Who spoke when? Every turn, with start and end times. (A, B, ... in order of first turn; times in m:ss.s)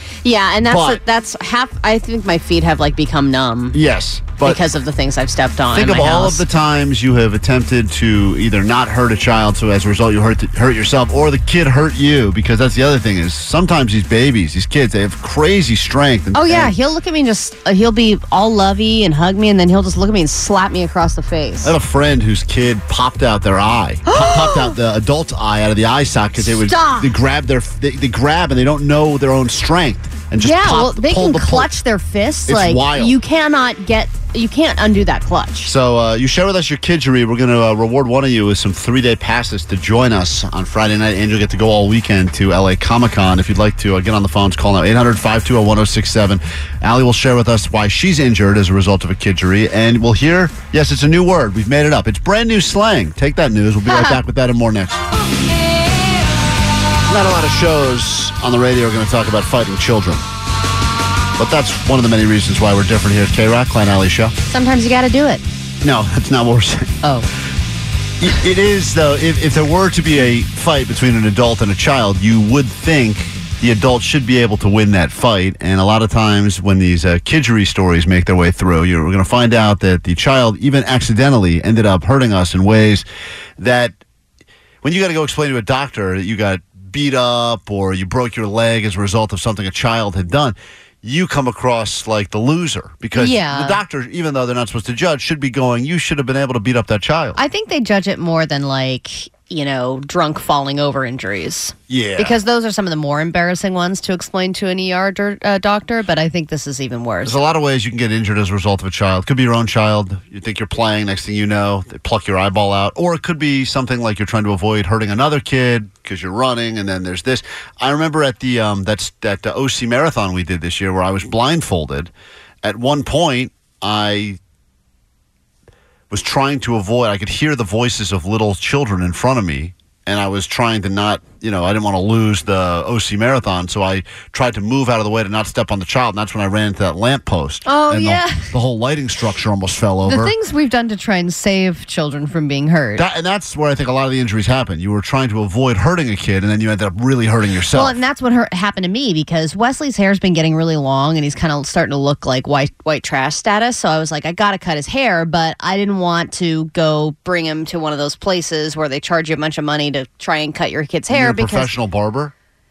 0:00.2-0:03.8 A
0:00.7-0:01.0 B
0:03.7-0:04.6 B
0:04.4-0:06.4 A
0:05.7-0:16.7 B
0:16.3-0:21.7 A
0:21.6-0:31.7 B
0:24.0-0:24.8 A
0:26.4-0:27.1 A
0:30.4-0:35.7 A
0:32.5-0:33.1 B
0:35.6-0:55.0 B
0:53.9-0:54.2 A
0:57.1-1:00.2 B
1:01.4-1:04.4 B
1:04.5-1:05.4 A
1:05.8-1:06.9 B
1:08.2-1:23.0 B
1:23.6-1:24.0 B
1:24.8-1:37.4 B
1:33.1-1:33.8 A
1:37.4-1:47.4 A
1:41.9-1:42.4 B
1:47.2-2:02.1 B
2:02.6-2:04.4 B
2:06.1-2:20.3 B
2:17.6-2:18.5 A
2:20.1-2:23.0 A
2:23.0-2:28.0 B
2:27.7-2:41.7 A
2:41.1-2:42.3 B